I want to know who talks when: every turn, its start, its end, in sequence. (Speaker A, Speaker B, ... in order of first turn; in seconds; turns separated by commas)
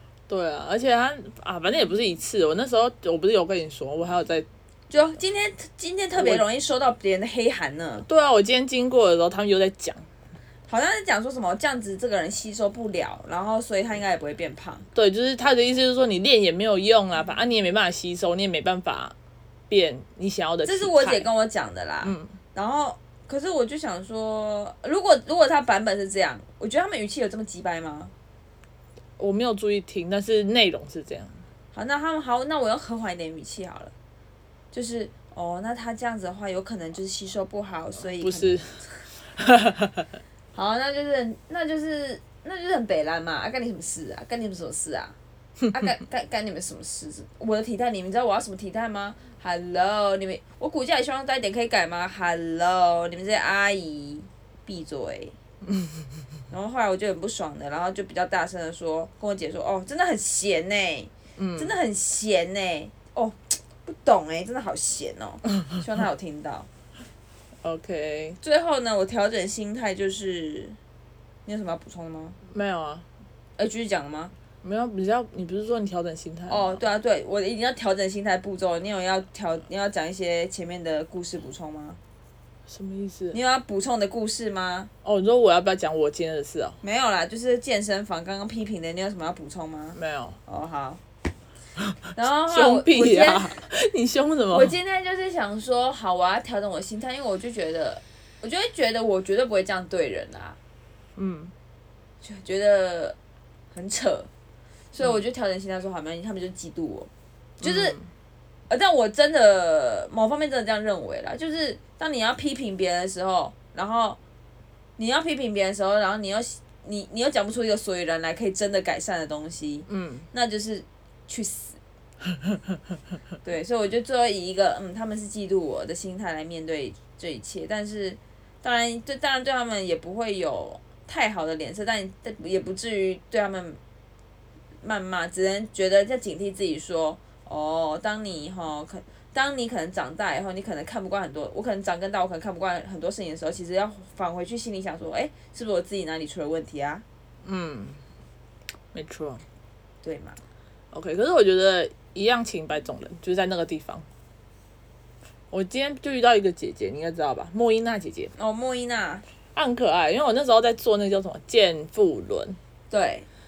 Speaker A: 0.3-4.5, Speaker B: 4.9-8.1, Speaker A: 6.2-6.4, Speaker A: 8.1-10.1, Speaker B: 10.7-14.9, Speaker A: 14.9-19.1, Speaker A: 19.7-21.3, Speaker B: 20.6-28.1, Speaker A: 22.0-22.4, Speaker A: 29.2-31.4, Speaker B: 31.7-33.9, Speaker B: 34.7-39.1, Speaker A: 38.2-38.8, Speaker A: 39.4-40.1, Speaker B: 40.5-45.2, Speaker B: 45.7-55.4, Speaker A: 55.7-56.0, Speaker B: 56.5-66.7, Speaker A: 61.4-61.8, Speaker A: 67.6-68.4, Speaker B: 68.4-70.8, Speaker B: 71.5-72.4, Speaker A: 72.5-73.1, Speaker B: 73.6-74.3, Speaker A: 74.6-76.8, Speaker B: 76.5-82.0, Speaker A: 82.7-83.4, Speaker B: 83.3-84.9, Speaker A: 85.0-86.8, Speaker B: 86.8-91.0, Speaker A: 90.0-90.4, Speaker B: 92.2-93.6, Speaker A: 92.5-94.8, Speaker B: 94.5-100.6, Speaker A: 101.2-101.5, Speaker B: 102.2-103.2, Speaker B: 103.7-104.3, Speaker B: 104.9-107.1, Speaker A: 107.6-108.1, Speaker B: 107.6-108.0, Speaker B: 108.7-114.2, Speaker B: 115.0-121.8, Speaker A: 119.9-120.3, Speaker B: 123.4-133.8, Speaker B: 134.8-147.0, Speaker A: 147.4-148.0, Speaker A: 148.9-149.4, Speaker B: 150.0-150.4, Speaker A: 150.9-154.1, Speaker A: 155.5-158.3, Speaker B: 158.4-159.2, Speaker A: 159.6-162.6, Speaker B: 162.9-163.3